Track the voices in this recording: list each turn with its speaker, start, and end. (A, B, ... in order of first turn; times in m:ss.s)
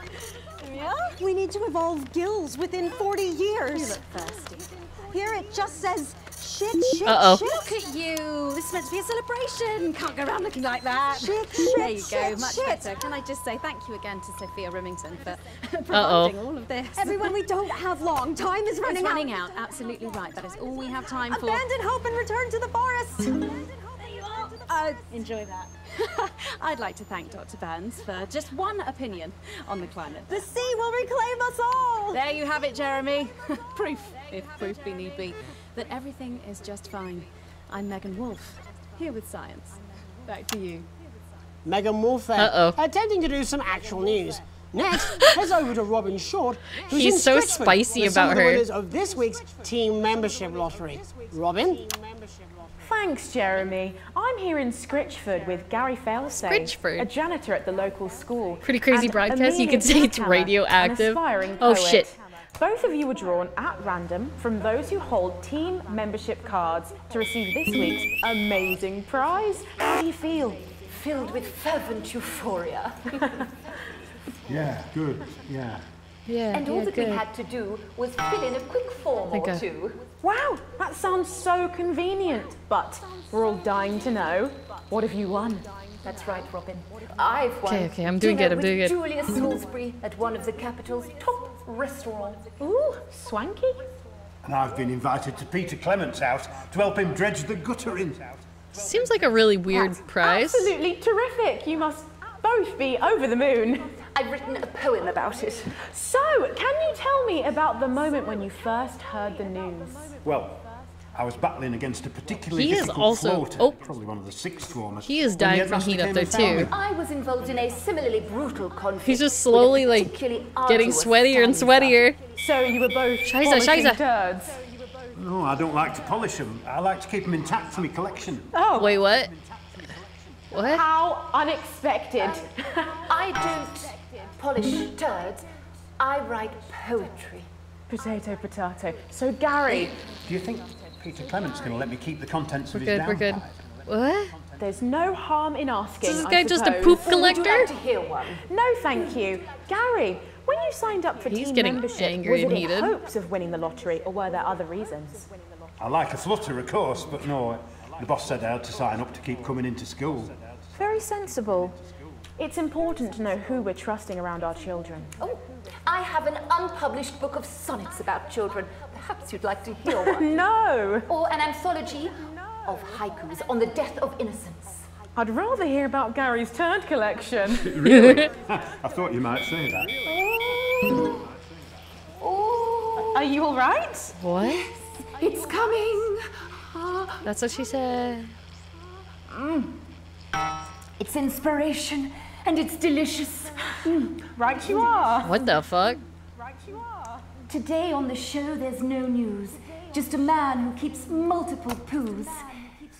0:00.6-0:01.2 A
0:00.7-0:04.0 B
0:03.6-0:05.5 A
0:05.1-0:07.8 B
0:07.0-0:07.4 C
0:07.4-0:21.7 A
0:11.1-0:13.1 B
0:15.9-0:16.4 C
0:16.9-0:19.4 B
0:21.3-0:24.6 B
0:24.4-0:30.5 A
0:30.3-0:32.2 B
0:32.1-0:40.9 A
0:41.6-0:51.9 D
0:42.4-0:42.8 C
0:46.9-0:48.6 C
0:52.8-1:10.0 E
0:56.4-0:57.1 C
0:58.6-1:02.1 C
1:09.8-1:13.1 F
1:14.5-1:15.8 G
1:16.3-1:17.2 C
1:16.5-1:20.0 F
1:19.3-1:19.6 C
1:20.2-1:25.7 E
1:26.0-1:32.5 F
1:27.6-1:29.0 C
1:32.6-1:33.8 E
1:34.4-1:39.1 G
1:38.7-1:40.7 C
1:39.7-1:43.9 E
1:44.1-1:45.8 F
1:45.8-1:50.1 E
1:50.2-1:56.7 G
1:52.5-1:53.8 C
1:55.0-1:56.7 C
1:56.7-2:02.0 F
1:59.0-2:02.2 C
2:02.3-2:04.6 E
2:03.2-2:04.0 C
2:05.1-2:08.5 G
2:08.5-2:09.0 E
2:08.8-2:09.3 C
2:10.5-2:10.8 C
2:10.6-2:13.0 E
2:13.0-2:15.5 F
2:16.0-2:17.5 F
2:17.9-2:20.0 E
2:20.2-2:23.7 G
2:22.7-2:24.4 C
2:24.6-2:27.7 E
2:26.0-2:27.7 C
2:26.9-2:29.1 F
2:28.4-2:35.3 E
2:31.3-2:32.9 C
2:35.8-2:40.4 G
2:40.7-2:41.8 E
2:42.4-2:45.1 E
2:45.2-2:50.3 F
2:49.9-2:51.1 E
2:51.1-2:54.9 F
2:55.1-2:57.8 E
2:57.6-2:59.9 G
2:57.8-2:58.3 C
3:00.0-3:01.1 E
3:02.2-3:03.5 F
3:03.0-3:04.1 E
3:04.2-3:04.6 C
3:05.1-3:06.2 F
3:06.7-3:07.1 F
3:07.2-3:08.3 C
3:11.0-3:15.3 F
3:13.8-3:15.2 E
3:15.2-3:16.0 C
3:17.4-3:22.6 F